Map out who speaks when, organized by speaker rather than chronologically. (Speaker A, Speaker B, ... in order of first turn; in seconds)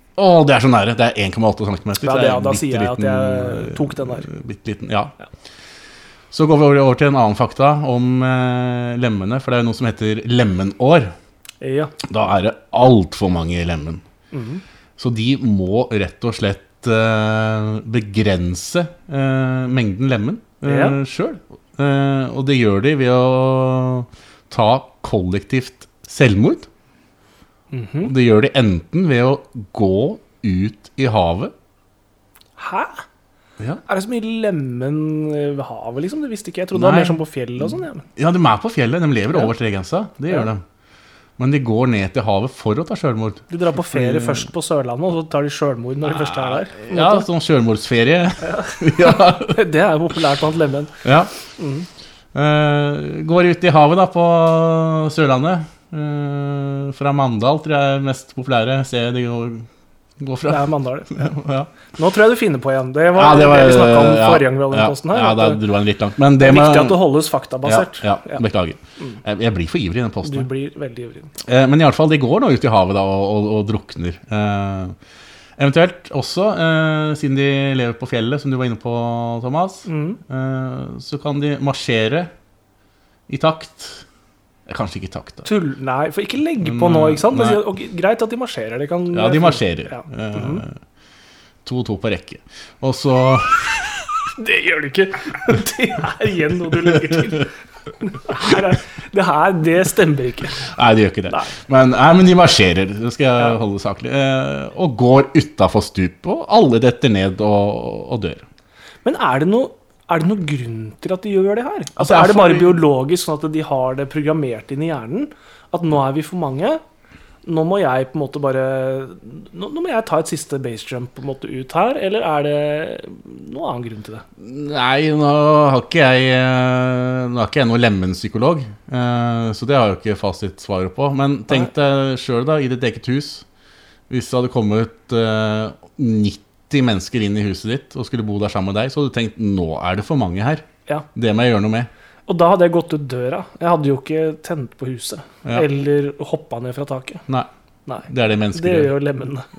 Speaker A: 0.1-5.1, 6.3-11.1, 12.0-14.0, 15.0-26.7, 28.0-31.5, 36.7-40.6, 41.4-44.5, 46.0-49.6, 51.0-51.3, 52.3-59.7, 60.2-61.8, 63.1-67.1, 67.6-70.5, 71.4-75.0, 75.6-82.3, 83.3-84.0, 84.7-85.5, 86.6-87.6, 89.1-90.8, 91.6-94.0, 96.8-97.2, 100.6-108.4, 112.0-112.8, 124.4-133.4, 134.1-141.9, 148.1-148.9
Speaker B: 2.0-4.3, 11.6-11.9, 14.3-14.6, 20.6-21.0, 27.7-28.1, 32.6-33.0, 33.8-38.0, 43.5-47.2, 48.5-51.0, 51.6-51.9, 60.5-61.3, 61.9-65.6, 66.4-68.4, 70.2-71.3, 79.8-80.2, 85.4-90.6, 94.3-100.7, 109.0-116.8, 117.4-124.2, 142.3-147.2, 147.9-149.5